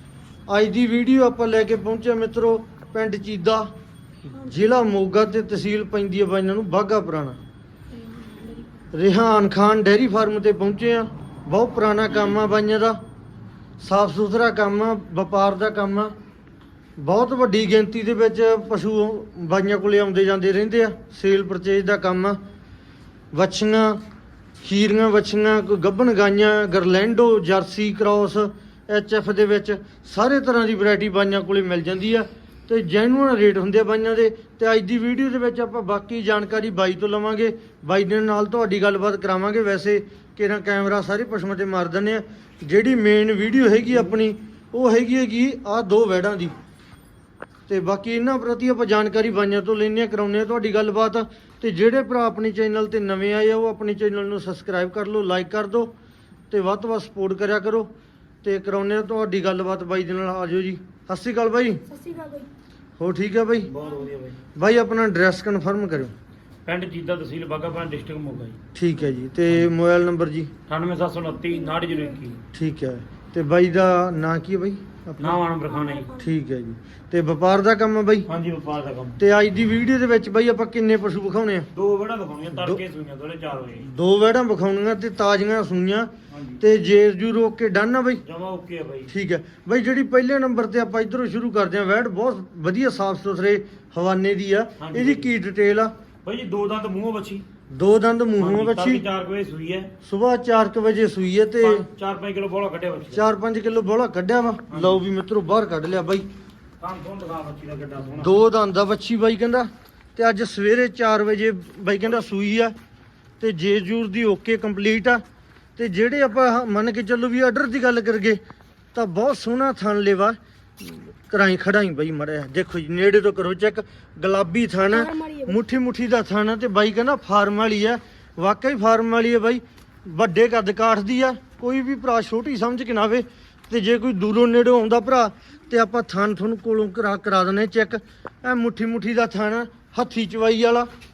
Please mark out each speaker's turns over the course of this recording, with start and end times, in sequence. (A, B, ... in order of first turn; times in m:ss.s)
0:00.5-0:03.7 A
0:04.3-0:07.4 A
0:04.4-0:04.7 B
0:07.9-0:08.8 B
0:08.9-0:13.0 A
0:13.8-0:16.1 A
0:17.0-0:22.4 A
0:23.3-0:24.0 A
0:24.6-0:46.5 A
0:47.7-0:55.9 A
0:56.5-0:57.9 A
0:58.4-1:01.8 A
1:01.9-1:02.5 B
1:03.0-1:03.7 A
1:03.7-1:04.4 C
1:04.6-1:06.1 A
1:06.6-1:08.6 C
1:08.7-1:10.5 A
1:10.7-1:12.4 C
1:11.5-1:12.1 B
1:12.5-1:15.4 A
1:15.2-1:16.2 C
1:15.7-1:16.3 B
1:16.2-1:18.3 A
1:18.3-1:19.2 C
1:19.2-1:21.7 A
1:21.7-1:23.9 C
1:23.8-1:28.2 A
1:26.3-1:26.6 C
1:28.2-1:29.1 C
1:29.1-1:35.9 A
1:34.8-1:35.3 C
1:36.2-1:37.4 C
1:37.7-1:39.0 A
1:38.4-1:39.9 C
1:40.0-1:41.9 A
1:41.6-1:43.2 C
1:43.1-1:46.3 A
1:44.7-1:45.0 C
1:46.8-1:48.4 C
1:48.2-1:52.8 A
1:53.4-1:55.2 A
1:55.8-1:58.4 A
1:58.9-2:20.9 A
2:04.9-2:05.6 B